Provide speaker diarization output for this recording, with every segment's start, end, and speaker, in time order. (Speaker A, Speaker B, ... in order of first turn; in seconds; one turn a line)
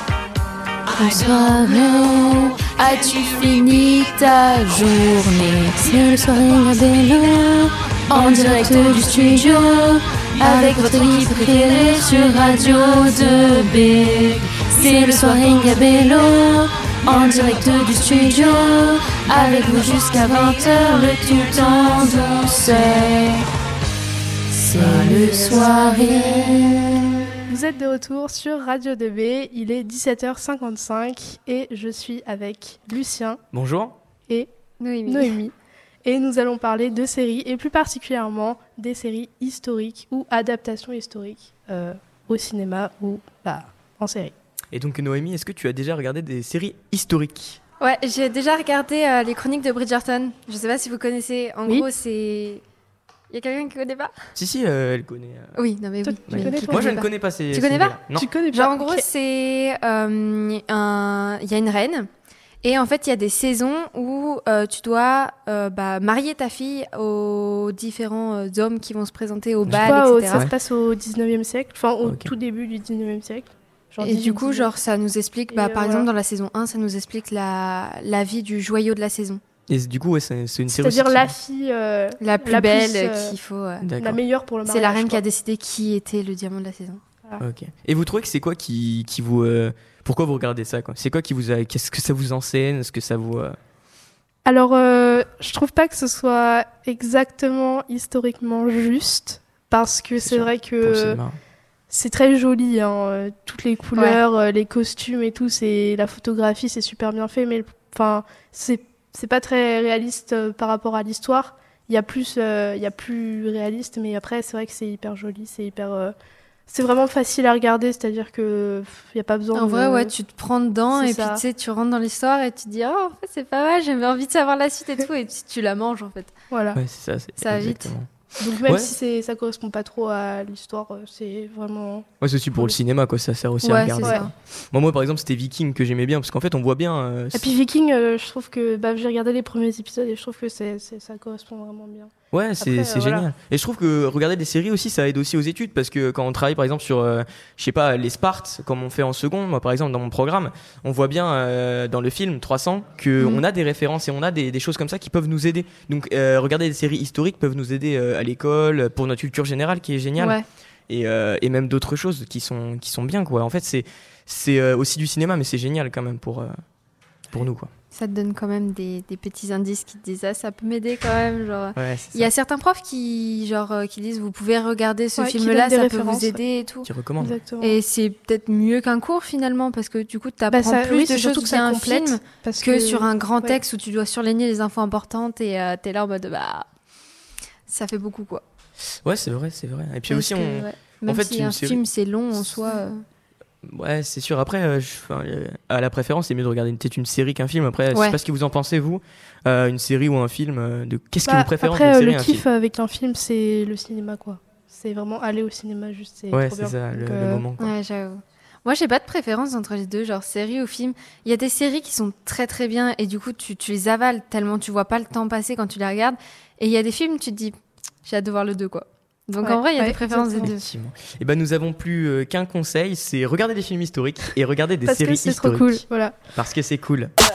Speaker A: 0.9-23.4
Speaker B: 10.8-11.2
Speaker A: 24.5-27.0
Speaker C: 27.5-33.4
Speaker D: 33.5-34.0
Speaker B: 34.8-35.3
Speaker C: 35.1-35.5
Speaker C: 36.0-44.3
Speaker D: 44.7-47.6
Speaker B: 47.8-52.6
Speaker B: 53.3-54.1
Speaker D: 54.4-55.6
Speaker B: 55.5-58.0
Speaker C: 56.0-57.0
Speaker D: 56.3-58.3
Speaker C: 58.1-59.0
Speaker B: 58.5-62.1
Speaker B: 62.6-70.5
Speaker D: 69.7-70.5
Speaker C: 69.7-74.7
Speaker D: 72.0-72.3
Speaker B: 74.0-79.4
Speaker C: 75.5-76.1
Speaker D: 79.7-81.3
Speaker C: 80.7-83.3
Speaker B: 82.2-83.9
Speaker D: 83.8-84.2
Speaker C: 84.0-85.2
Speaker B: 84.7-87.0
Speaker D: 87.4-93.5
Speaker C: 94.5-101.2
Speaker D: 100.2-101.4
Speaker C: 101.9-116.1
Speaker C: 116.7-120.1
Speaker B: 119.5-126.3
Speaker C: 120.9-121.4
Speaker C: 126.5-126.8
Speaker D: 126.7-128.1
Speaker B: 127.4-127.9
Speaker C: 128.4-132.8
Speaker D: 128.7-128.9
Speaker D: 132.2-137.5
Speaker B: 133.6-134.3
Speaker C: 137.3-143.3
Speaker D: 142.3-160.4
Speaker B: 153.2-153.4
Speaker B: 160.2-160.4
Speaker D: 160.9-166.5
Speaker D: 167.3-167.7
Speaker B: 167.9-176.9
Speaker D: 171.8-172.3
Speaker C: 175.2-176.4
Speaker D: 176.8-177.4
Speaker C: 177.2-177.8
Speaker B: 177.6-186.7
Speaker C: 180.5-183.6
Speaker B: 187.7-188.4
Speaker D: 189.0-191.8
Speaker B: 190.1-193.0
Speaker D: 193.6-202.4
Speaker C: 201.2-207.4
Speaker D: 206.3-207.7
Speaker B: 207.6-220.6
Speaker C: 219.4-220.7
Speaker D: 220.4-227.1
Speaker C: 224.8-226.2